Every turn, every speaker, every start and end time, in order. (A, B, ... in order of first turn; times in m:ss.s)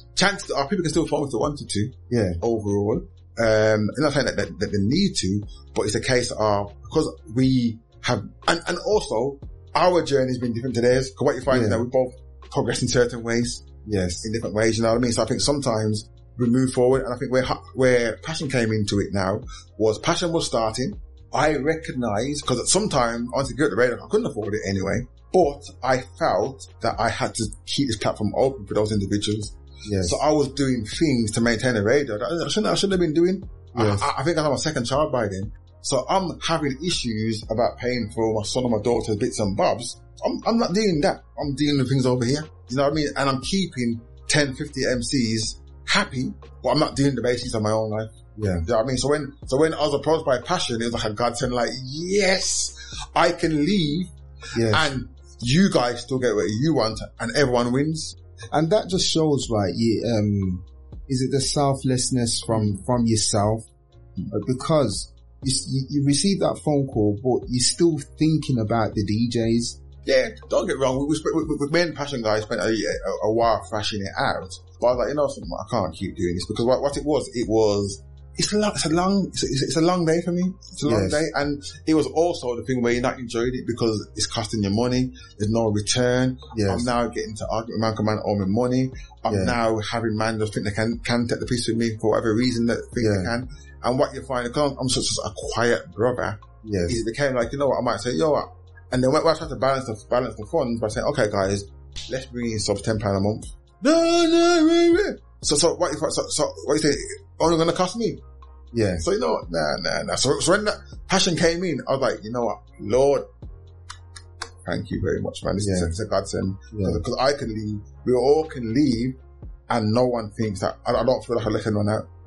0:00.1-0:13.6 A
0:02.1-0:02.4 B
0:11.5-0:11.8 B
0:13.8-0:14.2 B
0:14.2-0:48.1 A
0:29.8-0:30.2 B
0:33.7-0:34.1 B
0:48.4-0:48.6 B
0:48.6-0:54.1 A
0:54.5-0:54.9 B
0:54.6-0:58.1 A
0:58.5-1:03.7 B
1:04.3-1:09.8 B
1:10.0-1:48.2 A
1:20.8-1:21.2 B
1:26.5-1:26.9 B
1:29.3-1:29.6 B
1:33.0-1:33.3 B
1:36.6-1:37.0 B
1:48.7-1:49.0 B
1:49.0-1:53.2 A
1:54.6-1:59.2 A
1:55.6-1:55.9 B
1:56.7-1:57.0 B
1:59.7-2:02.0 A